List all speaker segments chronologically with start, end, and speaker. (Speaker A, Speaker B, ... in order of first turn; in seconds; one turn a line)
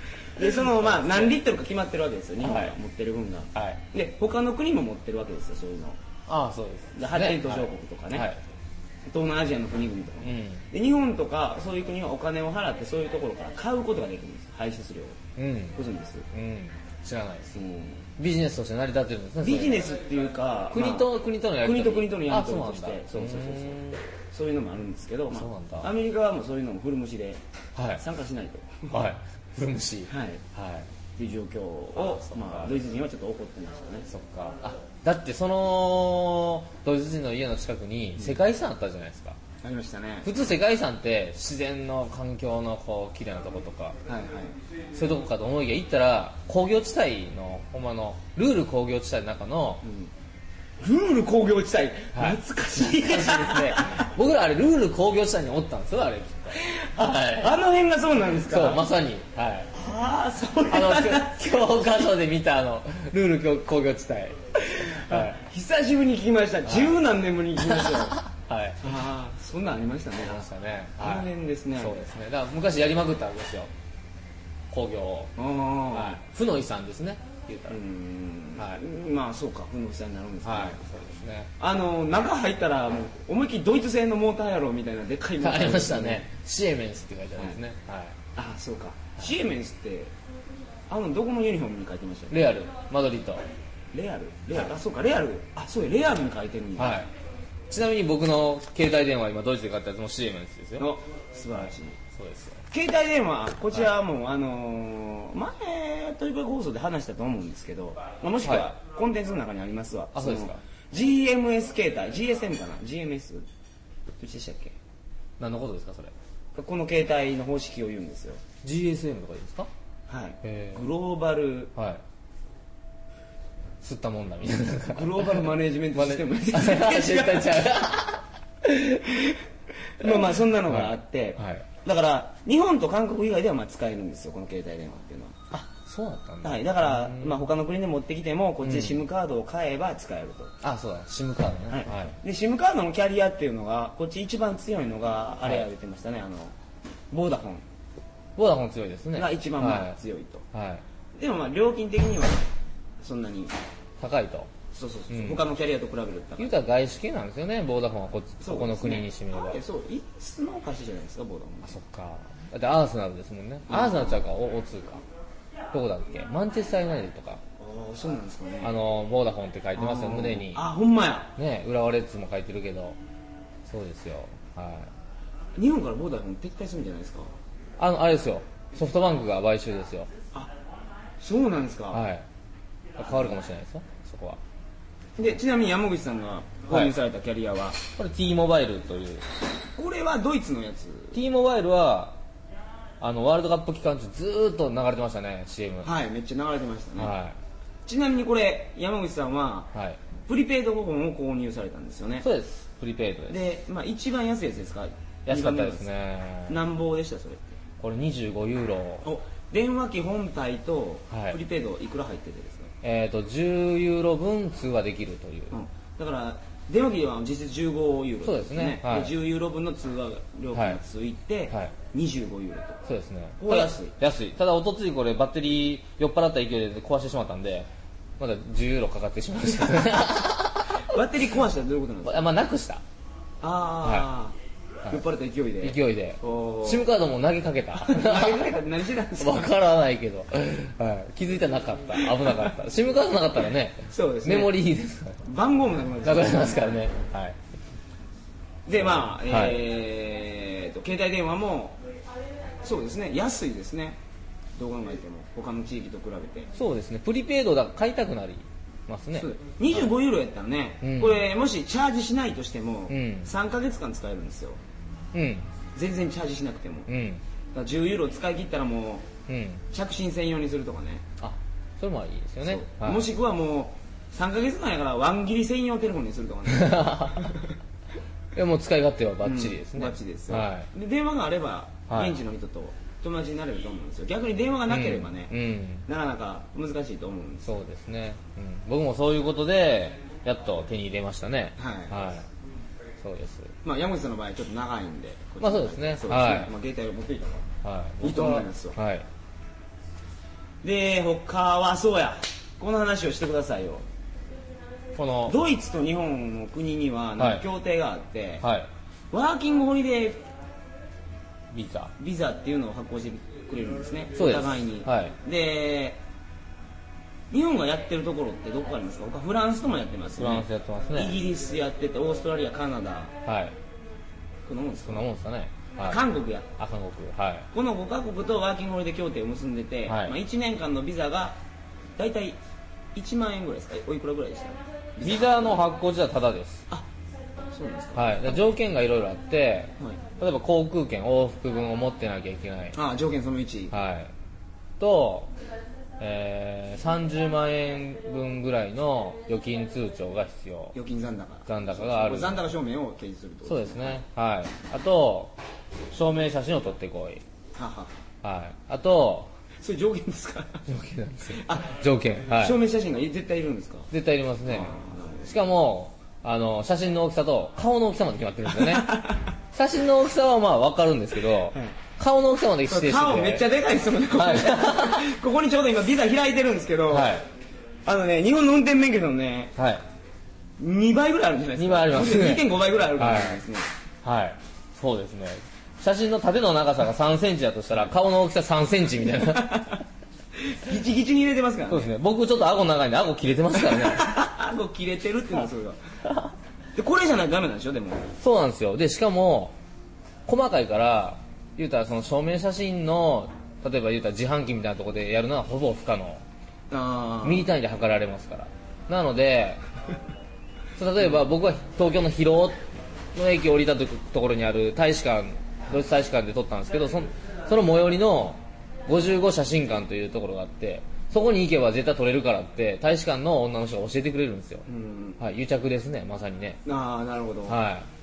Speaker A: 0.3-6.0
Speaker B: 0.4-1.4
Speaker B: 2.4-2.7
Speaker B: 3.5-3.8
Speaker B: 6.3-8.4
Speaker A: 7.0-8.3
Speaker A: 9.1-15.2
Speaker B: 10.2-10.7
Speaker B: 15.4-15.8
Speaker A: 15.8-16.2
Speaker B: 16.3-17.6
Speaker A: 17.5-18.0
Speaker B: 18.2-19.9
Speaker A: 19.4-27.4
Speaker B: 20.7-24.0
Speaker B: 25.3-25.9
Speaker B: 27.8-28.0
Speaker A: 28.0-29.0
Speaker B: 28.9-30.9
Speaker A: 30.1-30.4
Speaker A: 31.1-34.1
Speaker B: 32.0-32.8
Speaker B: 34.1-39.4
Speaker A: 39.6-40.3
Speaker B: 40.2-44.0
Speaker A: 44.0-44.5
Speaker B: 44.9-49.8
Speaker A: 49.8-50.1
Speaker A: 50.8-54.1
Speaker B: 52.1-57.6
Speaker A: 56.7-58.8
Speaker B: 58.4-59.7
Speaker A: 59.7-61.5
Speaker B: 60.7-65.4
Speaker A: 64.7-68.2
Speaker B: 66.7-66.9
Speaker B: 67.6-68.9
Speaker A: 68.8-70.5
Speaker B: 70.2-73.7
Speaker A: 71.0-72.0
Speaker B: 74.7-75.3
Speaker A: 75.4-76.2
Speaker B: 75.9-77.8
Speaker A: 77.7-80.8
Speaker B: 78.5-78.8
Speaker B: 80.4-81.5
Speaker A: 81.6-86.3
Speaker B: 85.4-88.2
Speaker A: 88.3-90.1
Speaker A: 90.9-92.6
Speaker B: 92.3-93.4
Speaker A: 93.9-97.0
Speaker B: 96.8-97.1
Speaker B: 97.7-100.9
Speaker A: 100.8-102.0
Speaker B: 102.1-102.6
Speaker A: 102.7-113.5
Speaker B: 108.4-108.7
Speaker B: 110.1-110.6
Speaker A: 114.2-114.8
Speaker B: 115.4-116.1
Speaker A: 116.5-118.4
Speaker B: 118.6-119.7
Speaker A: 120.1-121.7
Speaker B: 120.4-120.8
Speaker B: 121.8-122.0
Speaker B: 123.8-128.2
Speaker A: 124.9-127.6
Speaker A: 128.7-129.4
Speaker A: 129.9-135.4
Speaker B: 130.0-131.6
Speaker B: 135.5-137.4
Speaker A: 136.4-140.5
Speaker B: 138.6-139.0
Speaker B: 140.6-142.2
Speaker A: 141.7-146.5
Speaker A: 147.1-147.6
Speaker B: 148.4-150.0
Speaker A: 149.1-150.4
Speaker B: 150.5-150.8
Speaker A: 151.1-152.5
Speaker A: 153.0-153.5
Speaker B: 154.0-154.5
Speaker A: 154.7-156.5
Speaker B: 155.1-155.4
Speaker B: 156.4-159.6
Speaker A: 158.4-161.8
Speaker B: 161.6-165.0
Speaker A: 163.7-164.2
Speaker B: 165.7-167.4
Speaker A: 167.6-168.7
Speaker B: 168.6-170.6
Speaker A: 169.8-171.3
Speaker B: 171.4-173.0
Speaker B: 173.7-174.9
Speaker A: 175.6-177.3
Speaker B: 177.8-180.1
Speaker A: 181.2-182.0
Speaker B: 181.9-182.2
Speaker B: 183.0-184.4
Speaker A: 185.2-187.8
Speaker B: 187.9-189.2
Speaker A: 189.8-191.2
Speaker B: 191.1-192.2
Speaker B: 193.0-195.9
Speaker A: 195.8-197.1
Speaker B: 197.0-197.4
Speaker A: 197.8-199.7
Speaker B: 199.7-200.0
Speaker A: 200.3-202.3
Speaker B: 202.2-203.4
Speaker A: 203.3-205.9
Speaker B: 205.2-206.6
Speaker A: 206.5-207.6
Speaker B: 207.8-209.1
Speaker A: 209.0-212.7
Speaker B: 211.1-211.4
Speaker B: 212.8-215.6
Speaker A: 215.5-222.8
Speaker B: 218.2-219.1
Speaker B: 220.5-220.8
Speaker B: 222.8-227.7
Speaker A: 223.4-223.9
Speaker B: 228.2-230.9
Speaker A: 230.8-232.2
Speaker B: 232.0-232.8
Speaker A: 233.4-234.3
Speaker A: 234.9-236.9
Speaker B: 235.6-238.5
Speaker A: 237.8-239.6
Speaker B: 239.2-245.2
Speaker A: 242.0-242.4
Speaker A: 243.9-244.6
Speaker A: 245.2-246.8
Speaker B: 246.0-247.4
Speaker A: 248.7-251.8
Speaker B: 248.8-249.6
Speaker A: 252.6-254.0
Speaker A: 254.6-256.5
Speaker B: 256.5-259.8
Speaker A: 259.1-264.6
Speaker B: 260.8-261.2
Speaker B: 262.9-263.3
Speaker B: 265.1-265.5
Speaker A: 265.7-266.9
Speaker B: 266.9-267.2
Speaker A: 267.5-269.1
Speaker B: 269.3-269.6
Speaker A: 269.7-271.0
Speaker B: 271.2-273.1
Speaker A: 272.4-277.5
Speaker B: 276.5-277.4
Speaker B: 278.3-280.7
Speaker A: 279.2-285.3
Speaker B: 281.9-282.2
Speaker B: 284.7-285.9
Speaker A: 285.9-287.6
Speaker B: 287.4-292.3
Speaker A: 291.6-292.0
Speaker B: 293.0-293.5
Speaker A: 293.6-297.5
Speaker B: 295.4-296.5
Speaker B: 297.6-299.1
Speaker A: 298.0-298.8
Speaker A: 300.6-303.8
Speaker B: 304.9-305.4
Speaker A: 305.3-308.4
Speaker B: 307.2-307.4
Speaker B: 308.4-308.7
Speaker A: 309.1-310.2
Speaker B: 311.5-311.9
Speaker A: 312.0-316.0
Speaker B: 314.2-315.1
Speaker A: 317.3-323.1
Speaker B: 320.2-321.2
Speaker B: 323.2-323.5
Speaker A: 324.4-325.1
Speaker B: 324.8-326.0
Speaker A: 325.8-326.5
Speaker B: 326.6-327.5
Speaker A: 327.5-331.4
Speaker B: 329.9-330.1
Speaker A: 331.9-332.4
Speaker A: 332.9-335.6
Speaker B: 335.0-336.7
Speaker A: 337.5-338.5
Speaker B: 337.9-342.8
Speaker A: 342.7-343.7
Speaker B: 343.7-344.1
Speaker B: 344.8-345.3
Speaker B: 346.0-350.7
Speaker A: 350.7-354.0
Speaker B: 351.5-352.4
Speaker B: 353.4-355.3
Speaker B: 355.9-357.2
Speaker A: 357.5-357.9
Speaker B: 358.2-359.3
Speaker A: 359.6-360.6
Speaker B: 360.7-362.6
Speaker A: 361.4-361.8
Speaker A: 362.3-363.9
Speaker B: 363.9-369.0
Speaker A: 364.5-365.3
Speaker A: 368.5-369.3
Speaker B: 369.5-373.5
Speaker A: 372.7-377.2
Speaker B: 374.1-375.1
Speaker B: 376.9-377.2
Speaker A: 377.9-379.5
Speaker B: 379.6-379.8
Speaker A: 380.6-383.7
Speaker B: 381.6-383.4
Speaker B: 384.0-389.8
Speaker A: 389.4-389.8
Speaker A: 390.4-391.9
Speaker B: 391.7-394.2
Speaker A: 393.6-395.8
Speaker A: 396.8-398.2
Speaker B: 398.2-399.6
Speaker B: 400.2-406.2
Speaker A: 406.7-407.5
Speaker B: 407.2-409.6
Speaker B: 410.8-412.6
Speaker B: 413.1-424.7
Speaker A: 424.7-425.2
Speaker B: 425.2-426.6
Speaker A: 426.6-427.6
Speaker B: 427.5-427.9